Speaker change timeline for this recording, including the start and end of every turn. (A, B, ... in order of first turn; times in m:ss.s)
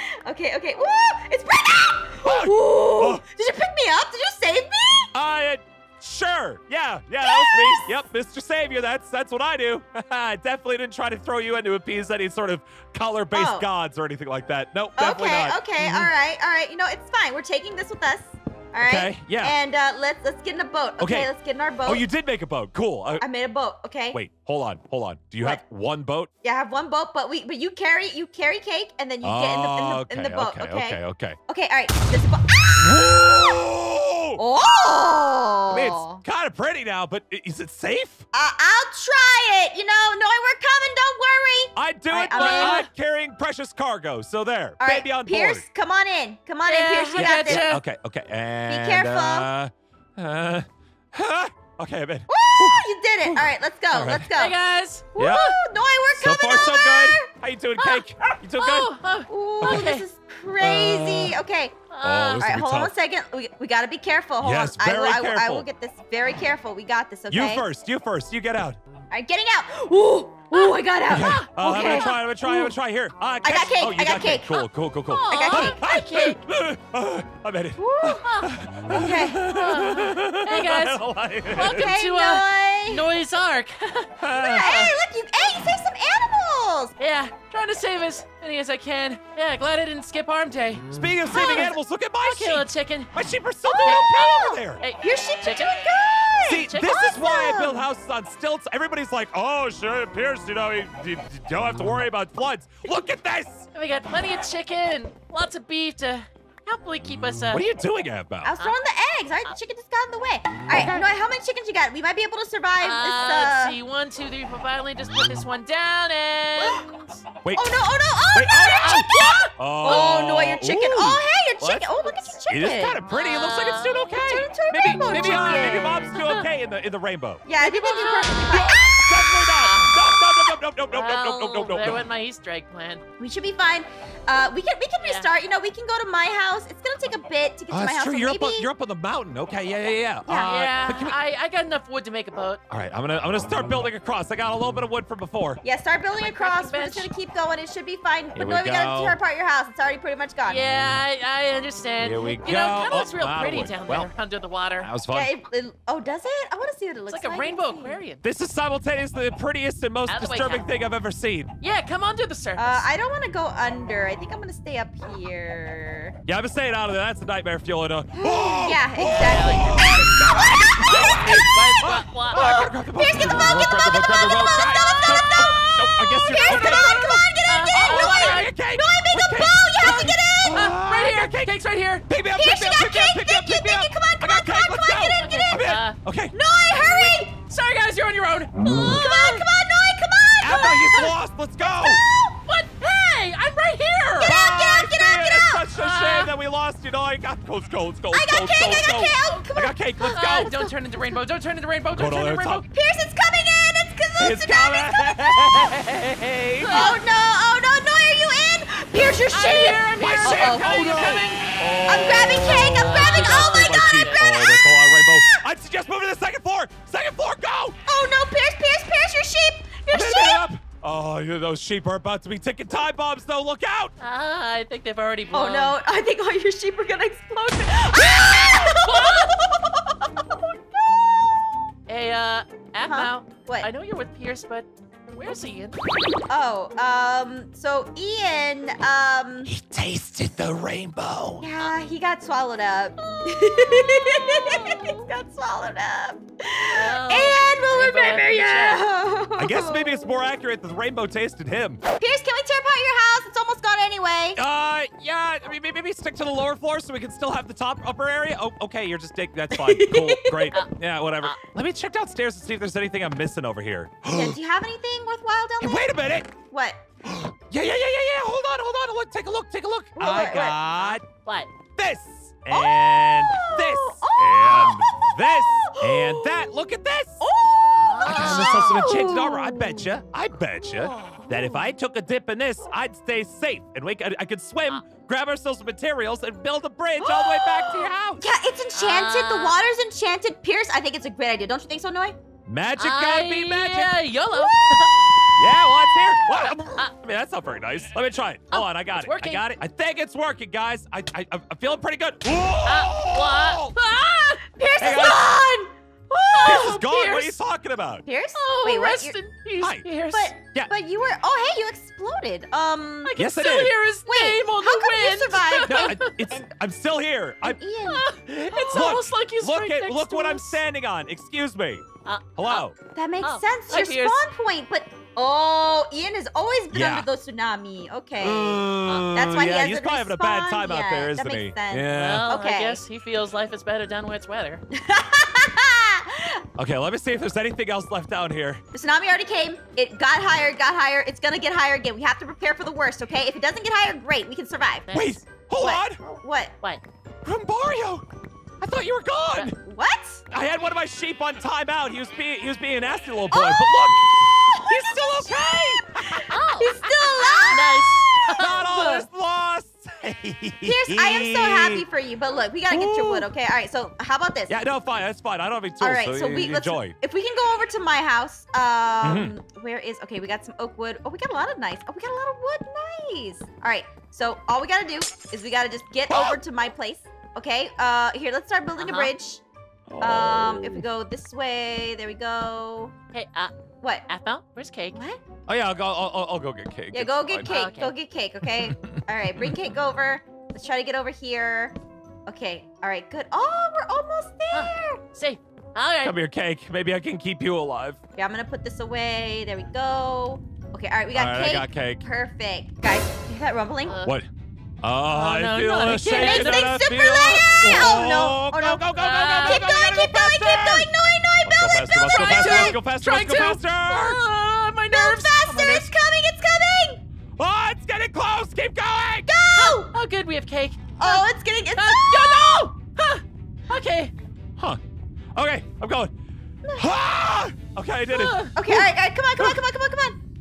0:00.2-0:05.1 A
0:02.2-0:03.2 B
0:05.1-0:16.1 B
0:07.2-0:07.9 A
0:13.3-0:13.7 A
0:15.0-0:22.0 A
0:18.8-0:19.5 B
0:21.0-0:21.3 B
0:21.8-0:23.2 B
0:23.2-0:24.2 A
0:24.1-0:26.3 B
0:26.4-0:33.2 A
0:29.2-0:31.4 B
0:32.8-0:34.4 B
0:34.4-0:36.2 A
0:35.7-0:38.2 B
0:38.3-0:42.9 A
0:41.7-0:45.6 B
0:42.3-0:42.8 C
0:44.8-0:47.6 A
0:46.6-0:47.8 C
0:47.2-0:54.3 B
0:48.7-0:49.5 A
0:52.3-0:54.5 A
0:54.4-0:55.4 C
0:55.2-0:57.3 A
0:55.2-0:55.5 B
0:56.1-0:58.9 B
0:57.8-0:58.0 C
0:58.6-1:00.0 C
0:59.3-1:01.7 A
0:59.6-0:59.9 B
1:00.6-1:01.4 B
1:01.9-1:02.4 C
1:02.0-1:02.9 B
1:02.4-1:07.6 A
1:04.4-1:05.7 B
1:07.3-1:08.8 B
1:09.1-1:12.1 A
1:10.5-1:12.6 C
1:11.1-1:22.0 B
1:13.4-1:14.6 A
1:15.1-1:16.4 C
1:15.3-1:15.8 A
1:17.8-1:18.3 A
1:18.2-1:18.5 C
1:18.9-1:19.4 A
1:19.4-1:24.9 C
1:21.6-1:23.0 A
1:24.2-1:24.8 B
1:24.4-1:26.9 A
1:27.0-1:33.1 C
1:30.8-1:34.8 B
1:31.3-1:31.7 A
1:33.7-1:37.8 A
1:33.8-1:37.2 C
1:36.4-1:43.7 B
1:43.7-1:47.6 C
1:47.5-1:48.5 B
1:48.4-1:53.8 A
1:50.6-1:51.0 B
1:52.8-1:57.2 C
1:57.4-1:57.8 B
1:57.5-2:03.0 A
1:58.3-2:07.4 B
1:58.8-2:00.2 C
2:03.1-2:04.3 C
2:04.2-2:06.2 A
2:04.9-2:06.4 C
2:07.4-2:08.9 A
2:07.6-2:13.0 C
2:08.5-2:12.0 B
2:13.2-2:18.7 A
2:15.0-2:15.3 C
2:17.7-2:21.2 B
2:20.2-2:20.5 A
2:20.5-2:22.6 C
2:22.7-2:25.6 B
2:25.6-2:30.6 A
2:26.1-2:27.1 C
2:28.3-2:29.2 B
2:30.4-2:34.9 C
2:32.0-2:34.1 B
2:34.8-2:35.3 B
2:35.1-2:38.0 A
2:37.1-2:38.2 C
2:38.2-2:41.5 B
2:40.1-2:40.7 C
2:41.6-2:42.8 C
2:42.6-2:46.1 A
2:46.2-3:01.5 B
2:48.1-2:50.1 A
2:49.2-2:49.9 C
2:50.8-2:52.5 C
2:52.3-3:00.7 A
2:56.5-2:56.8 C
2:57.5-2:58.5 C
2:59.8-3:02.0 C
3:02.0-3:07.2 B
3:02.3-3:05.6 A
3:05.1-3:06.0 C
3:06.3-3:07.3 A
3:07.4-3:09.4 C
3:08.6-3:11.0 A
3:10.4-3:12.0 B
3:11.6-3:12.4 A
3:12.4-3:14.3 C
3:14.2-3:20.5 B
3:14.2-3:15.7 A
3:15.7-3:16.3 C
3:18.1-3:21.2 A
3:19.2-3:19.5 C
3:20.1-3:22.6 C
3:22.0-3:22.6 B
3:22.7-3:25.7 A
3:24.2-3:26.9 B
3:26.6-3:27.0 C
3:26.7-3:31.0 A
3:29.3-3:31.4 C
3:30.0-3:37.8 B
3:31.8-3:35.3 A
3:32.4-3:34.3 C
3:37.8-3:40.4 A
3:39.9-3:43.9 B
3:44.0-3:45.8 C
3:45.3-3:49.9 A
3:48.7-3:49.3 C
3:51.9-3:55.8 C
3:52.8-3:53.7 A
3:56.3-3:59.5 A
3:59.4-4:01.4 B
4:01.4-4:10.0 A
4:03.1-4:05.0 C
4:06.7-4:08.8 C
4:09.4-4:11.8 B
4:12.0-4:14.4 A
4:14.4-4:24.4 B
4:19.5-4:20.5 A
4:24.1-4:25.9 A
4:25.6-4:26.3 B
4:26.5-4:26.8 A
4:27.0-4:31.0 B
4:30.0-4:30.6 A
4:30.6-4:31.5 C
4:31.8-4:37.2 B
4:32.5-4:36.4 A
4:37.2-4:39.9 A
4:37.8-4:38.8 C
4:38.0-4:48.2 B
4:47.0-4:52.2 A
4:48.7-4:49.6 C
4:52.4-4:54.0 B
4:52.8-4:55.0 C
4:55.4-5:03.7 B
4:56.5-4:56.9 C
4:58.5-4:59.4 C
5:02.6-5:04.4 C
5:04.5-5:06.7 A
5:04.8-5:05.2 B
5:06.3-5:07.4 C
5:06.4-5:08.0 B
5:08.0-5:09.2 A
5:08.4-5:10.3 C
5:09.6-5:09.9 B
5:10.1-5:13.1 A
5:10.4-5:10.7 B
5:13.0-5:16.1 C
5:13.2-5:13.7 B
5:14.1-5:16.5 A
5:15.7-5:17.6 B
5:17.4-5:19.0 A
5:17.8-5:20.6 C
5:18.7-5:22.7 B
5:22.0-5:22.6 C
5:22.9-5:32.8 A
5:23.2-5:24.2 C
5:26.7-5:27.1 B
5:28.2-5:32.2 B
5:28.9-5:29.2 C
5:31.9-5:34.6 C
5:34.7-5:36.4 A
5:36.6-5:38.6 B
5:38.7-5:44.9 A
5:44.9-5:45.2 C
5:44.9-5:46.0 B
5:45.6-5:46.5 A
5:47.2-5:48.0 B
5:48.6-5:49.6 B
5:49.6-5:50.2 A
5:50.3-5:56.3 B
5:53.3-5:55.4 A
5:56.0-5:57.6 A
5:56.3-5:58.6 C
5:57.2-5:57.8 B
5:58.3-6:01.8 B
5:58.4-5:59.0 A
6:00.6-6:04.6 A
6:02.7-6:03.3 B
6:04.5-6:07.0 B
6:05.8-6:19.4 A
6:09.0-6:09.3 B
6:16.1-6:16.4 B
6:18.8-6:19.1 C
6:19.9-6:20.8 B
6:20.0-6:22.9 A
6:23.1-6:23.5 C
6:24.1-6:25.0 C
6:24.9-6:25.2 A
6:25.5-6:27.5 B
6:26.9-6:31.7 A
6:27.4-6:27.9 C
6:28.4-6:29.5 B
6:32.2-6:35.0 A
6:34.5-6:36.1 C
6:36.0-6:38.0 B
6:38.2-6:44.0 A
6:41.1-6:42.0 B
6:43.8-6:44.2 C
6:44.8-6:50.9 B
6:45.1-6:46.8 C
6:46.1-6:48.9 A
6:48.9-6:49.6 C
6:49.4-6:52.8 A
6:51.4-6:54.2 B
6:52.1-6:55.9 C
6:54.9-6:57.0 A
6:57.4-6:59.3 B
6:59.3-6:59.9 A
6:59.5-7:04.1 C
7:01.0-7:02.5 A
7:05.3-7:06.1 B
7:06.8-7:09.6 B
7:08.1-7:08.5 C
7:08.5-7:10.2 A